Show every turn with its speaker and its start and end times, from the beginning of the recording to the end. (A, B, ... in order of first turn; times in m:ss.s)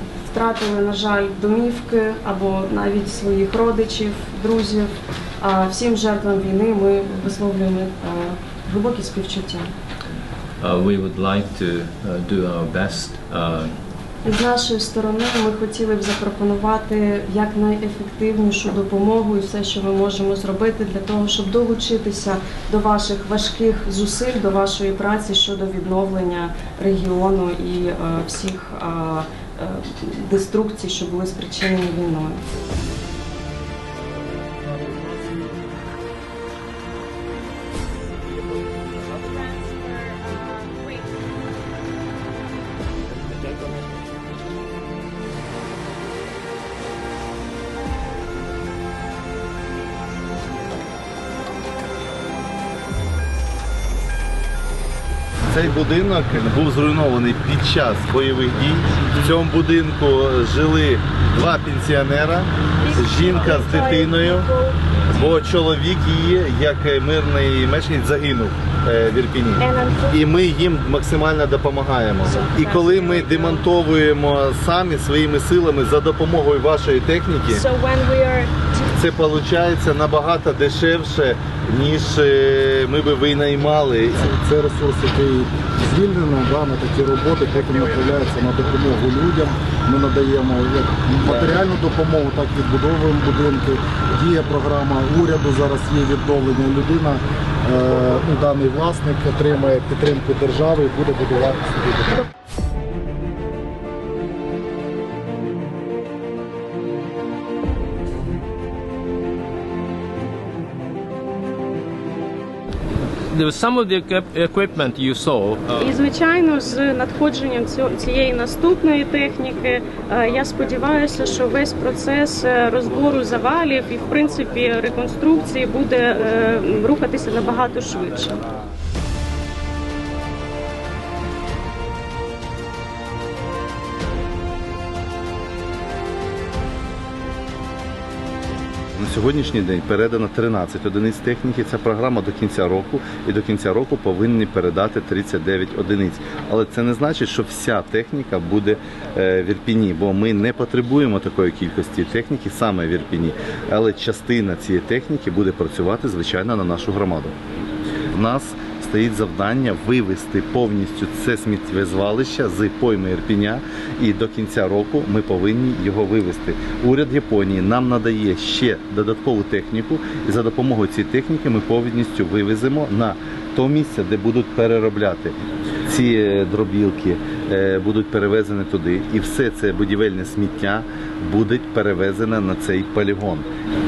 0:00.3-0:09.7 A
0:10.6-0:13.7 B
0:14.2-0:32.4 A
0:39.2-0:41.1 C
0:55.5-1:04.5 D
1:02.8-1:04.8 C
1:05.1-1:17.7 D
1:09.6-1:10.2 C
1:12.2-1:13.6 C
1:17.5-1:19.0 C
1:19.0-1:24.3 D
1:24.4-1:25.1 E
1:27.0-1:32.0 E
1:31.2-1:31.6 D
1:34.2-1:42.2 E
1:53.3-1:55.8 B
1:55.8-2:08.4 C
2:19.0-2:37.4 D
2:38.1-3:03.4 D